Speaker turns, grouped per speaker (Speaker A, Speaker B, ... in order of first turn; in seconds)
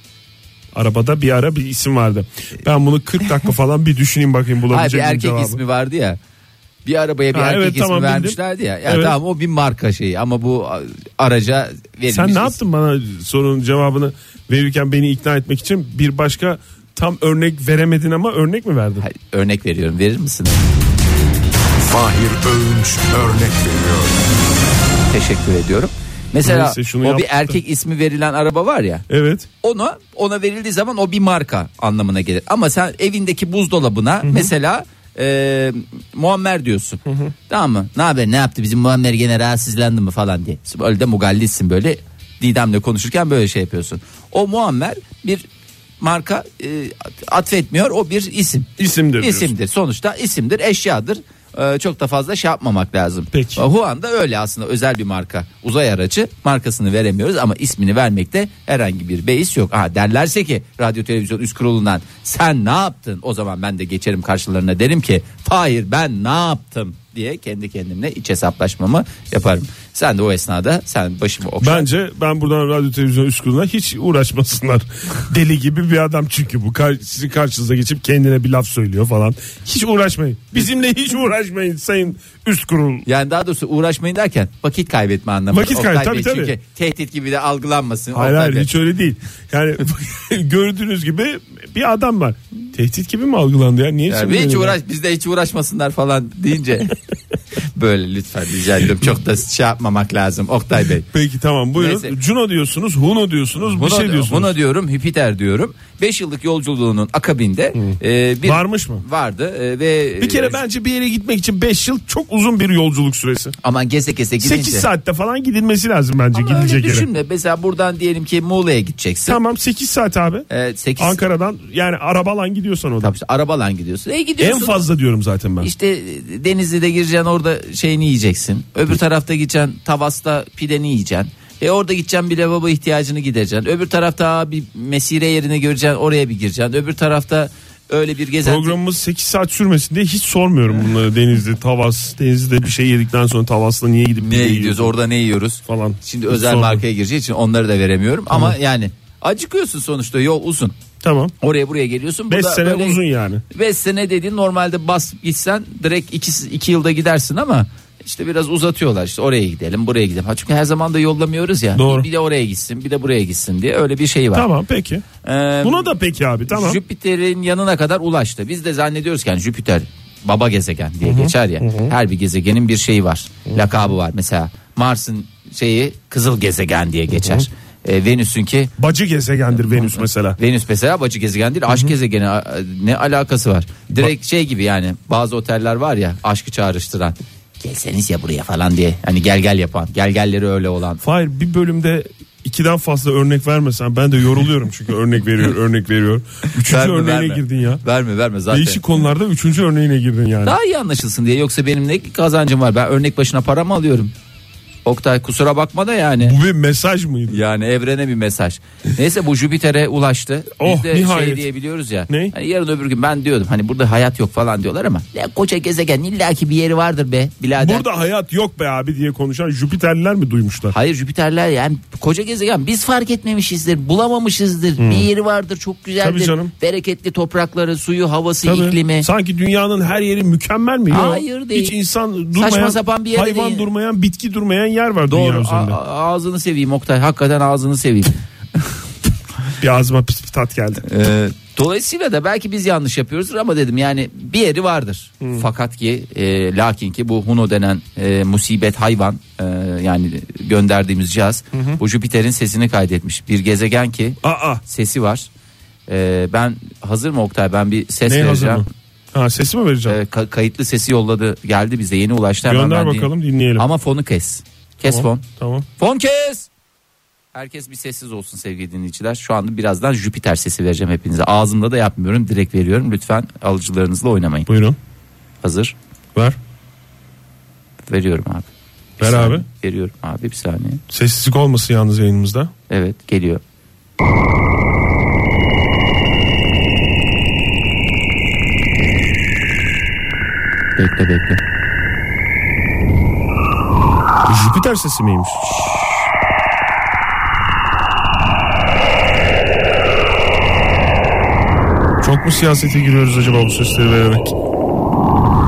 Speaker A: 0.7-5.6, 7.3-9.2, 12.1-19.1, 26.4-27.6, 29.1-29.5, 34.2-34.5, 37.1-37.3, 48.8-49.5, 53.3-53.6, 71.6-83.1, 85.5-86.5, 88.1-94.8, 101.1-104.5, 107.8-109.0, 110.2-113.5, 114.4-117.1, 119.3-120.5, 121.0-123.1, 124.4-125.7, 138.4-144.9, 145.7-146.8, 151.0-151.3, 152.3-153.4, 161.8-162.1, 164.3-165.1, 165.6-166.8, 171.1-171.9, 177.2-177.4, 178.8-180.4, 191.0-197.8, 198.5-200.6, 206.2-207.4, 210.6-211.4, 212.1-212.3, 217.6-220.7, 224.8-225.1, 226.0-226.5, 228.4-235.8, 239.6-240.8, 245.2-245.5, 251.5-251.8, 254.2-254.6, 258.1-260.0, 262.4-263.7, 264.9-265.7, 274.5-274.8, 279.0-279.4, 280.9-282.5, 294.2-295.5, 302.0-304.3
Speaker B: 4.7-6.2, 6.8-12.6, 19.0-20.6, 25.1-29.1, 29.6-45.5, 46.0-71.9, 83.1-88.7, 94.1-97.0, 97.8-101.1, 101.8-102.1, 103.6-110.6, 113.6-114.9, 116.3-119.4, 120.5-121.2, 123.0-124.8, 125.6-138.8, 144.2-150.8, 151.4-164.5, 165.2-165.9, 166.5-178.7, 179.5-191.0, 196.6-198.8, 200.4-204.1, 204.8-206.4, 207.3-217.9, 220.7-229.1, 230.9-231.8, 232.3-233.7, 235.1-238.7, 240.8-255.3, 255.9-258.7, 259.9-265.3, 265.8-266.5, 267.3-274.5, 275.4-275.8, 277.9-278.5, 279.0-280.8, 282.7-283.4, 290.8-291.4
Speaker C: 21.8-24.2